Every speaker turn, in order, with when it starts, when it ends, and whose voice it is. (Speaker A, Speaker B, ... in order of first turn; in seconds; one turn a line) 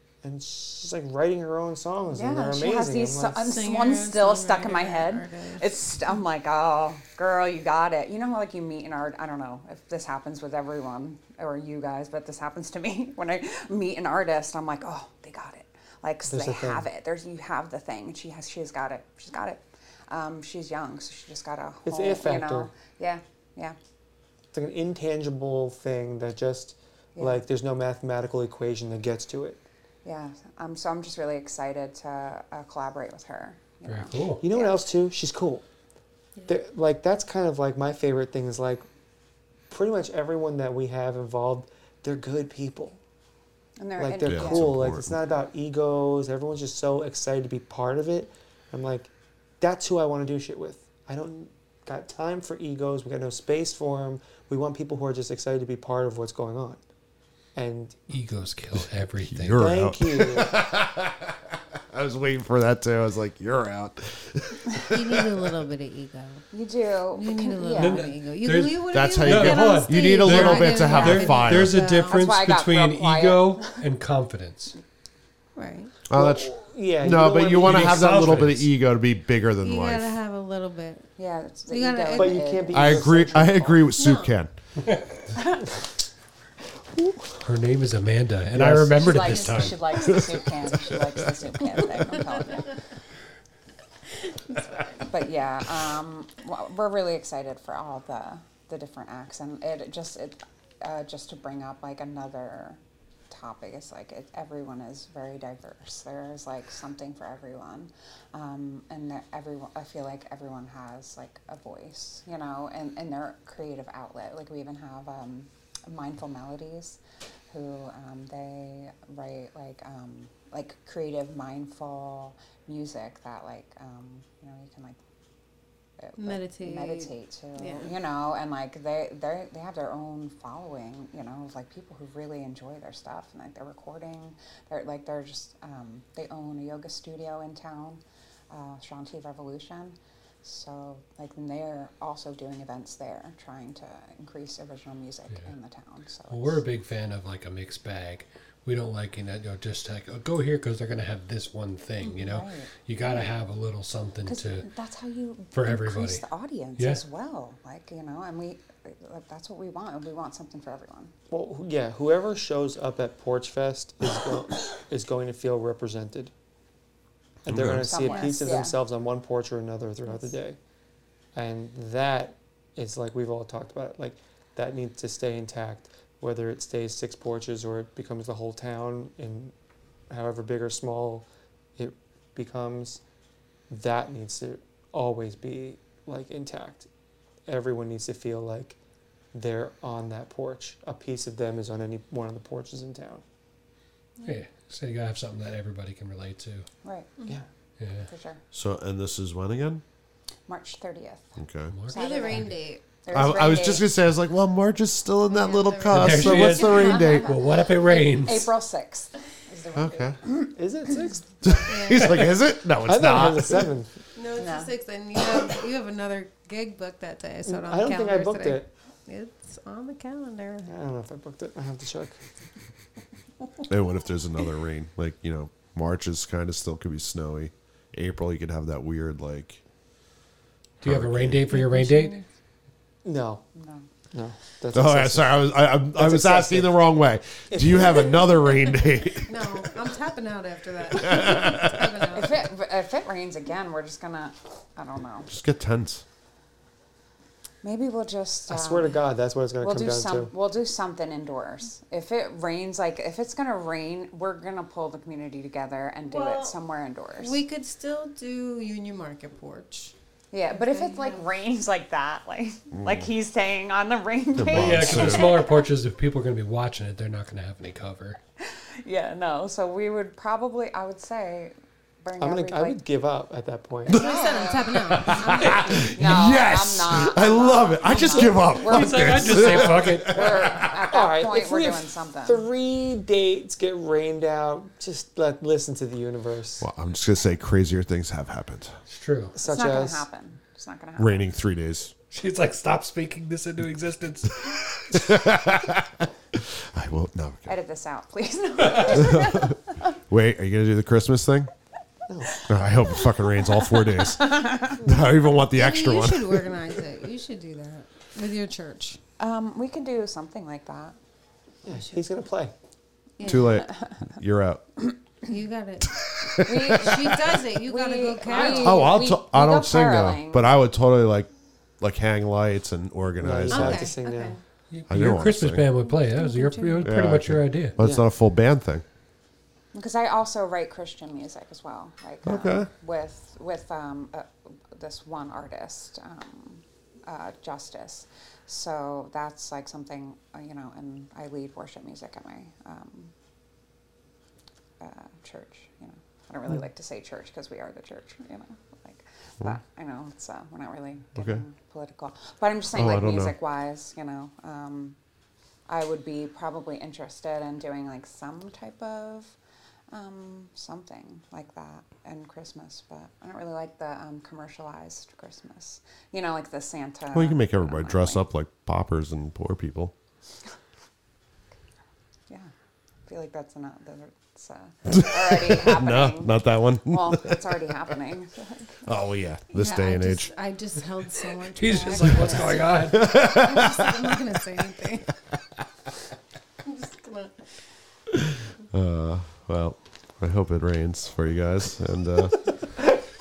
Speaker A: 0.2-3.4
Speaker B: 2.1-23.8
Speaker C: 3.4-5.7
Speaker A: 16.3-16.9
Speaker A: 21.9-22.7
Speaker A: 24.5-29.6
Speaker B: 27.2-27.4
Speaker B: 30.0-34.8
Speaker D: 33.9-34.4
Speaker A: 34.4-35.6
Speaker A: 36.5-38.9
Speaker A: 39.7-43.0
Speaker B: 43.8-44.9
Speaker A: 44.0-56.8
Speaker E: 44.2-45.2
Speaker A: 57.5-58.1
Speaker D: 58.1-59.7
Speaker E: 59.2-65.6
Speaker A: 59.5-60.5
Speaker C: 64.8-66.4
Speaker B: 66.5-68.1
Speaker C: 67.1-72.3
Speaker D: 67.8-74.8
Speaker E: 68.9-71.8
Speaker B: 70.2-71.3
Speaker B: 72.1-73.8
Speaker C: 75.6-75.9
Speaker E: 76.1-80.2
Speaker A: 76.1-78.4
Speaker D: 77.5-78.7
Speaker C: 79.6-81.1
Speaker B: 81.2-83.8
Speaker C: 81.7-82.5
Speaker A: 82.2-83.7
Speaker E: 82.7-84.5
Speaker C: 83.9-84.3
Speaker B: 85.3-85.7
Speaker A: 87.0-87.4
Speaker D: 87.4-90.1
Speaker A: 88.5-89.5
Speaker B: 89.0-92.8
Speaker E: 90.0-91.8
Speaker C: 92.3-92.7
Speaker C: 94.3-95.1
Speaker B: 95.1-117.0
Speaker B: 117.5-125.0
Speaker B: 126.0-146.6
Speaker C: 126.2-127.9
Speaker D: 146.3-154.7
Speaker B: 152.0-153.3
Speaker B: 154.3-161.1
Speaker D: 155.5-156.2
Speaker A: 161.3-166.3
Speaker A: 167.4-170.6
Speaker E: 167.5-167.9
Speaker B: 167.7-168.8
Speaker C: 168.1-168.5
Speaker A: 171.3-179.5
Speaker A: 180.1-181.3
Speaker A: 181.8-183.0
Speaker A: 183.7-186.9
Speaker A: 187.5-188.8
Speaker A: 189.3-193.2
Speaker D: 194.2-196.7
Speaker B: 196.8-197.1
Speaker D: 197.8-198.1
Speaker B: 198.1-198.4
Speaker E: 198.5-199.8
Speaker B: 200.5-203.9
Speaker E: 201.4-201.7
Speaker D: 201.7-202.5
Speaker C: 201.9-202.8
Speaker E: 203.1-207.3
Speaker C: 205.3-207.2
Speaker D: 205.9-208.5
Speaker B: 206.5-210.6
Speaker E: 209.8-210.2
Speaker A: 210.6-211.6
Speaker E: 211.4-213.7
Speaker C: 211.7-212.3
Speaker A: 212.8-213.9
Speaker C: 214.2-220.7
Speaker B: 214.4-214.7
Speaker A: 217.5-218.7
Speaker A: 220.7-222.2
Speaker E: 223.7-229.6
Speaker D: 230.8-232.2
Speaker E: 230.8-231.4
Speaker C: 231.5-232.2
Speaker A: 233.0-233.4
Speaker B: 233.6-233.9
Speaker A: 234.1-236.8
Speaker E: 234.7-239.7
Speaker A: 237.5-238.3
Speaker C: 239.2-242.4
Speaker E: 240.9-242.1
Speaker B: 242.1-245.3
Speaker E: 245.3-246.0
Speaker B: 247.6-249.1
Speaker A: 248.5-250.3
Speaker B: 249.6-257.4
Speaker C: 256.1-256.6
Speaker C: 257.2-259.9
Speaker B: 260.3-265.7
Speaker C: 260.5-261.4
Speaker E: 262.8-263.1
Speaker E: 264.4-265.3
Speaker D: 264.5-268.2
Speaker B: 268.4-272.8
Speaker A: 272.2-274.0
Speaker C: 273.9-276.0
Speaker B: 273.9-282.4
Speaker E: 274.7-280.7
Speaker D: 278.6-280.1
Speaker A: 280.1-286.7
Speaker E: 286.6-288.8
Speaker D: 288.9-289.4
Speaker A: 289.4-290.1
Speaker B: 289.4-291.3
Speaker E: 291.0-291.9
Speaker D: 292.1-295.1
Speaker E: 294.9-297.6
Speaker B: 297.5-299.9
Speaker E: 298.9-299.6
Speaker E: 300.1-301.5
Speaker A: 302.1-302.4
Speaker B: 302.4-304.9
Speaker E: 302.5-306.6
Speaker C: 305.5-309.0
Speaker B: 309.2-311.0
Speaker A: 311.7-312.5
Speaker C: 313.2-313.6
Speaker B: 313.2-314.1
Speaker E: 313.2-314.7
Speaker C: 315.2-316.0
Speaker E: 315.9-317.4
Speaker B: 316.4-320.5
Speaker C: 316.7-319.0
Speaker E: 318.3-324.0
Speaker A: 323.2-324.4
Speaker C: 323.5-324.4
Speaker D: 324.7-327.8
Speaker E: 324.9-325.7
Speaker C: 325.8-326.9
Speaker E: 326.8-328.8
Speaker A: 327.8-328.1
Speaker B: 329.7-343.1
Speaker E: 332.2-332.7
Speaker B: 344.8-355.0
Speaker E: 351.2-351.4
Speaker E: 352.7-353.4
Speaker B: 355.7-359.4
Speaker B: 359.9-368.3
Speaker E: 367.1-369.9
Speaker B: 373.1-378.9
Speaker E: 374.9-377.6
Speaker E: 378.9-380.3
Speaker C: 379.5-385.2
Speaker D: 381.6-383.1
Speaker B: 382.0-382.6
Speaker E: 382.8-384.4
Speaker C: 386.6-387.7
Speaker E: 388.7-392.5